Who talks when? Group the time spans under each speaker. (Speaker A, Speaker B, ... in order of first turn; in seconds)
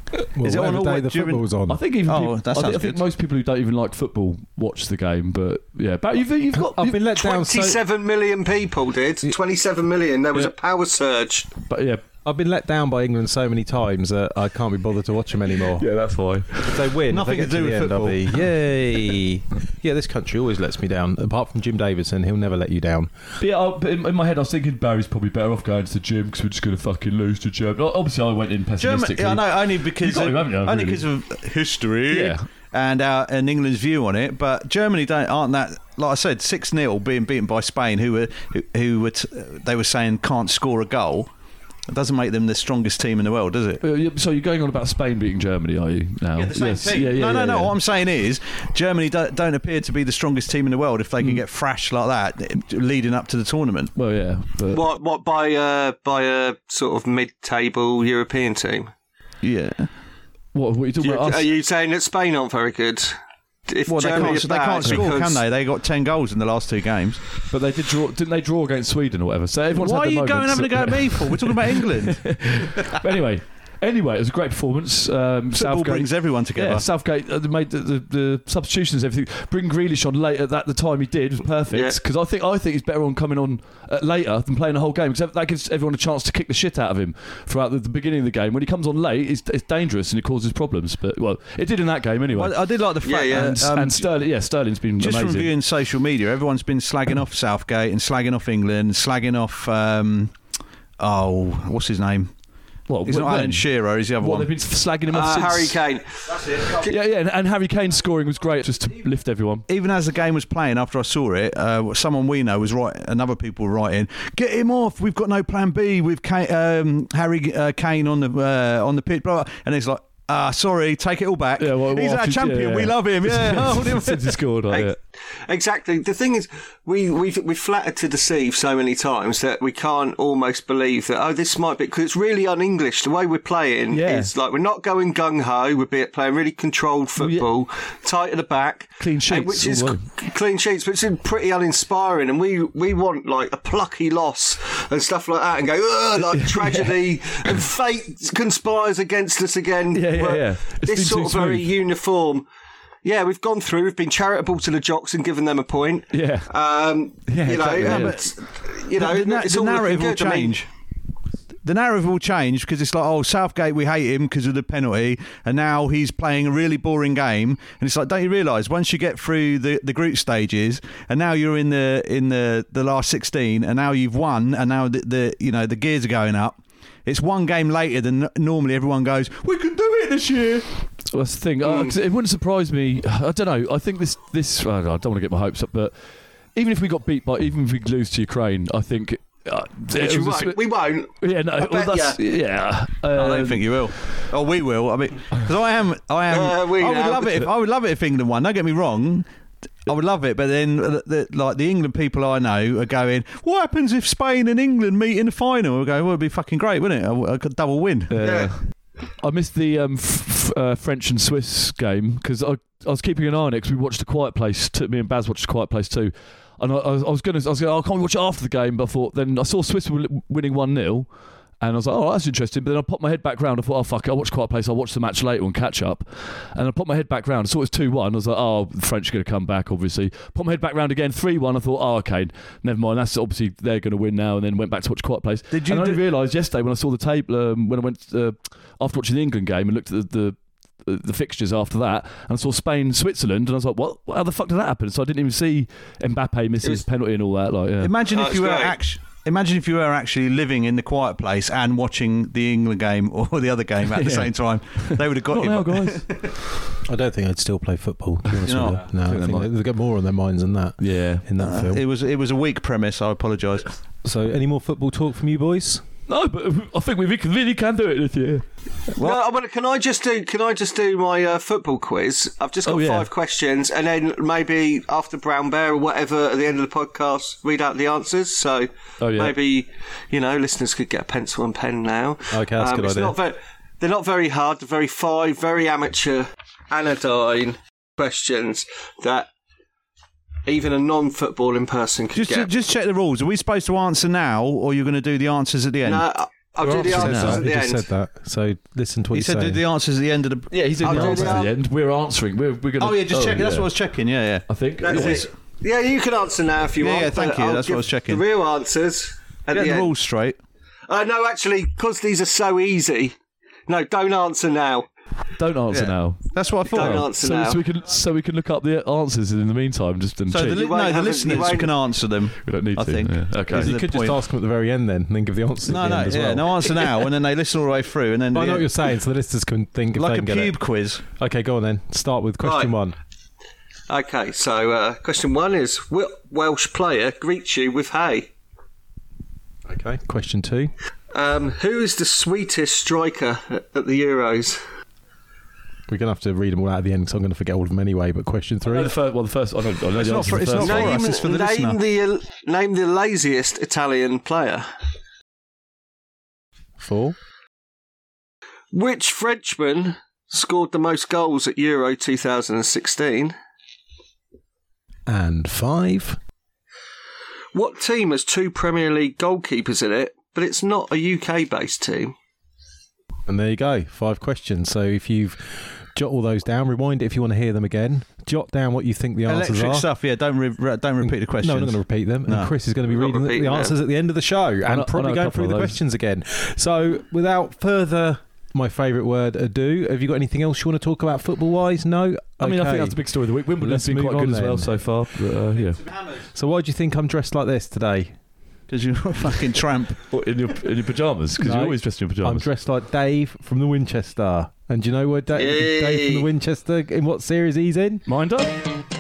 Speaker A: 0.3-1.8, 6.5-7.8, 12.2-15.9, 16.6-23.1, 256.9-261.8, 264.0-265.8, 282.3-283.2, 296.6-299.6, 323.5-326.7, 328.3-330.5, 331.2-333.0, 339.7-340.7, 345.9-348.9, 356.8-357.2, 365.1-366.2, 373.3-379.9, 381.0-393.0, 393.6-394.8, 396.3-398.1, 401.4-408.1
Speaker B: 0.4-1.4, 2.0-3.0, 17.1-18.2, 28.8-41.3, 41.9-43.8, 46.4-53.9, 59.4-59.9, 63.9-67.2, 69.7-72.3, 75.5-76.8, 92.3-94.1, 95.0-100.3, 101.0-102.3, 103.0-104.5, 109.7-124.4, 157.5-158.3, 159.0-160.7, 161.6-180.7, 193.1-199.3, 199.9-208.4, 235.5-236.0, 247.8-256.3, 258.5-258.8, 261.4-263.7, 269.0-269.2, 292.1-296.1, 299.1-301.5, 302.8-305.3, 306.8-308.2, 309.5-310.4, 315.7-317.1, 320.3-324.2, 325.6-328.7, 329.9-331.0, 349.9-351.8, 379.3-382.5, 398.7-400.1
Speaker C: 1.7-7.0, 11.7-12.0, 15.8-16.9, 23.4-31.1, 32.1-32.4, 43.8-47.8, 54.0-54.8, 60.5-61.5, 64.2-65.3, 67.5-95.5, 102.9-105.8, 106.6-109.7, 121.6-125.0, 133.9-134.3, 137.2-137.5, 139.0-140.0, 146.2-147.6, 149.9-151.7, 156.1-156.5, 157.3-158.2, 181.1-185.9, 186.6-193.9, 208.1-248.0, 253.8-256.4, 258.3-259.5, 260.8-261.3, 266.1-268.4, 272.6-273.1, 279.0-279.4, 296.8-297.4, 300.5-303.7, 304.5-305.2, 315.4-320.6, 322.4-323.7, 348.6-351.0, 384.7-385.8, 392.4-395.8, 400.1-402.5, 408.1-408.7
Speaker D: 7.2-11.5, 54.7-58.9, 61.0-65.4, 81.7-82.0, 93.0-93.5, 105.1-107.0, 124.7-152.5, 153.0-160.6, 181.6-181.9, 189.9-192.2, 196.3-197.5, 208.2-208.6, 248.1-248.8, 269.0-289.3, 290.4-292.5, 295.8-297.9, 300.8-301.5, 304.8-309.9, 310.9-313.2, 313.7-314.9, 316.6-317.6, 320.5-321.8, 332.4-332.7, 333.9-338.3, 341.1-344.6, 350.5-354.7, 358.7-363.4, 367.5-372.1, 382.9-383.7, 405.3-406.3